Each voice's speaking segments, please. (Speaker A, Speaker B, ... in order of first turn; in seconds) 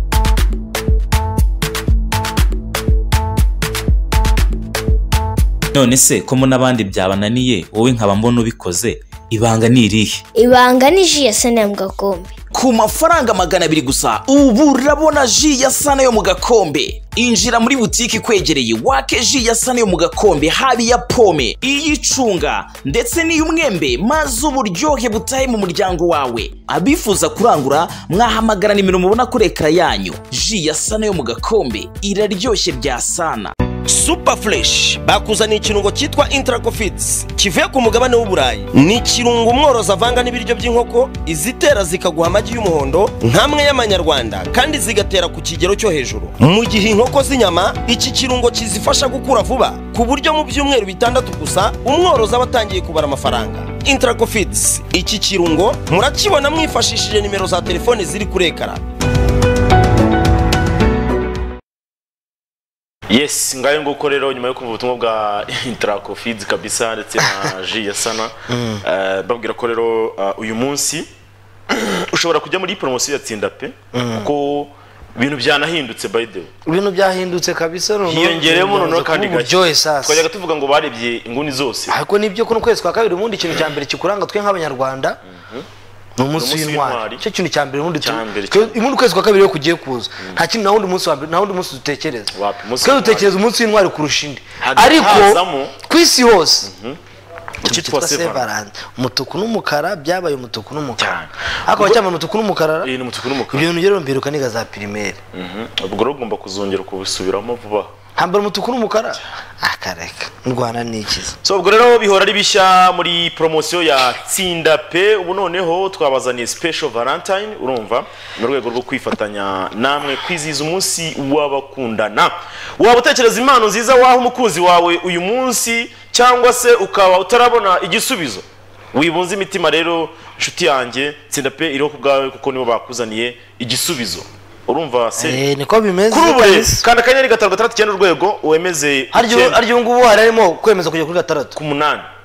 Speaker A: 5.7-10.2
Speaker B: 10.3-12.3
Speaker C: 12.5-33.5
Speaker D: 33.9-58.8
Speaker E: 63.1-71.1, 71.8-76.5, 78.1-82.0, 85.3-85.7, 86.3-87.2, 88.0-88.8, 92.3-93.4, 94.6-95.8, 96.6-97.0, 97.6-98.5, 101.0-102.0, 102.8-103.7, 105.3-107.9, 111.4-135.4, 136.1-139.6, 141.6-142.1
Speaker F: 68.5-68.8, 73.9-74.3, 76.7-80.3, 81.9-85.2, 86.2-92.3, 92.8-96.7, 97.7-102.9, 103.5-105.2, 108.2-111.4, 135.2-136.8, 139.1-141.6